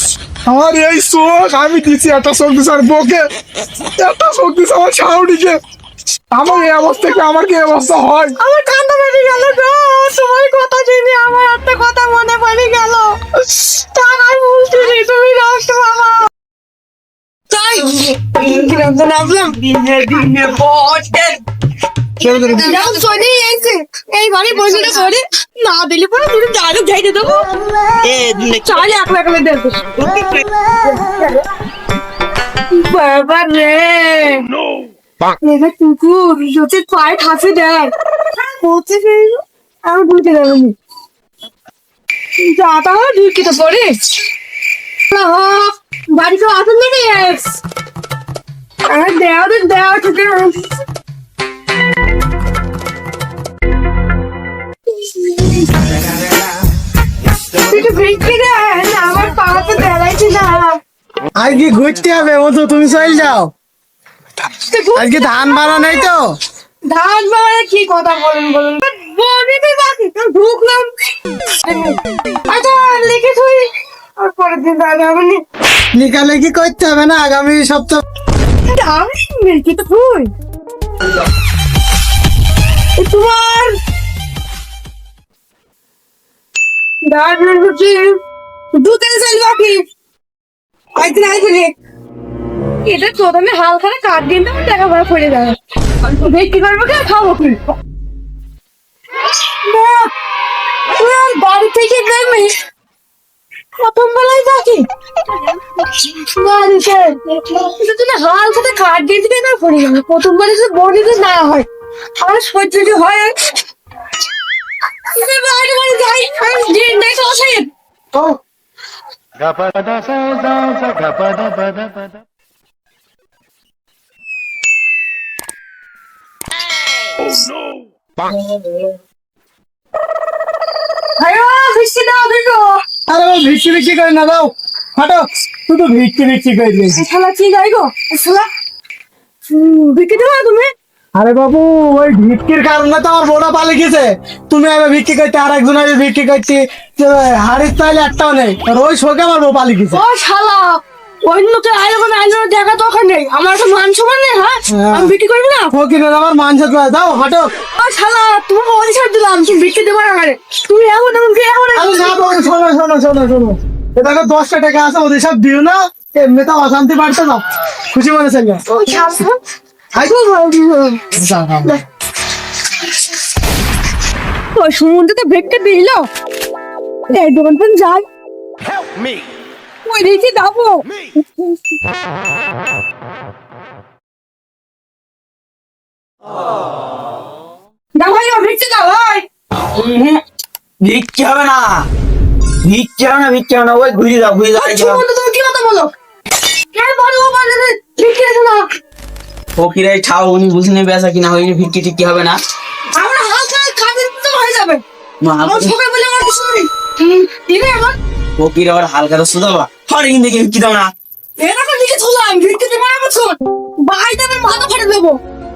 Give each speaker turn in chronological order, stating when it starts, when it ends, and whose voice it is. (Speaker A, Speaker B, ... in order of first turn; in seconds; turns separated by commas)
Speaker A: 0.5-3.2, Speaker A: 4.0-5.6, Speaker A: 6.3-8.3, Speaker B: 8.4-16.3, Speaker B: 17.5-19.6, Speaker C: 19.6-21.4, Speaker B: 22.5-27.5, Speaker C: 28.0-28.8, Speaker B: 28.6-29.9, Speaker B: 30.8-31.4, Speaker B: 32.7-34.5, Speaker B: 35.4-40.8, Speaker B: 42.4-44.1, Speaker B: 45.1-47.6, Speaker B: 48.9-50.6, Speaker B: 54.9-55.7, Speaker B: 57.6-60.8, Speaker D: 61.4-63.5, Speaker B: 64.6-66.1, Speaker D: 64.9-66.3, Speaker B: 66.9-75.4, Speaker D: 75.9-78.0, Speaker B: 78.7-80.3, Speaker B: 83.0-83.8, Speaker B: 87.0-88.2, Speaker B: 88.7-89.8, Speaker B: 91.0-91.7, Speaker B: 92.8-97.7, Speaker B: 99.6-100.1, Speaker B: 101.0-102.5, Speaker B: 103.8-104.9, Speaker B: 105.4-111.7, Speaker B: 112.2-113.6, Speaker B: 115.1-117.7, Speaker B: 131.2-132.8, Speaker D: 133.1-137.0, Speaker B: 136.9-138.5, Speaker B: 139.5-140.7, Speaker D: 141.2-150.0, Speaker B: 149.9-155.7, Speaker D: 154.7-155.1, Speaker D: 155.7-157.5, Speaker B: 157.8-162.4, Speaker D: 161.7-168.6, Speaker B: 168.7-169.4, Speaker B: 170.0-171.1, Speaker D: 171.1-171.8, Speaker B: 174.5-176.1, Speaker B: 177.1-178.1, Speaker B: 179.8-181.8, Speaker B: 187.9-189.3, Speaker C: 189.7-190.2, Speaker C: 190.8-191.9, Speaker C: 192.6-195.0, Speaker B: 194.5-195.9, Speaker B: 196.7-198.7, Speaker C: 199.6-202.4, Speaker B: 203.0-204.8, Speaker C: 205.2-205.7, Speaker B: 205.4-208.0, Speaker C: 208.4-210.9, Speaker B: 211.4-215.2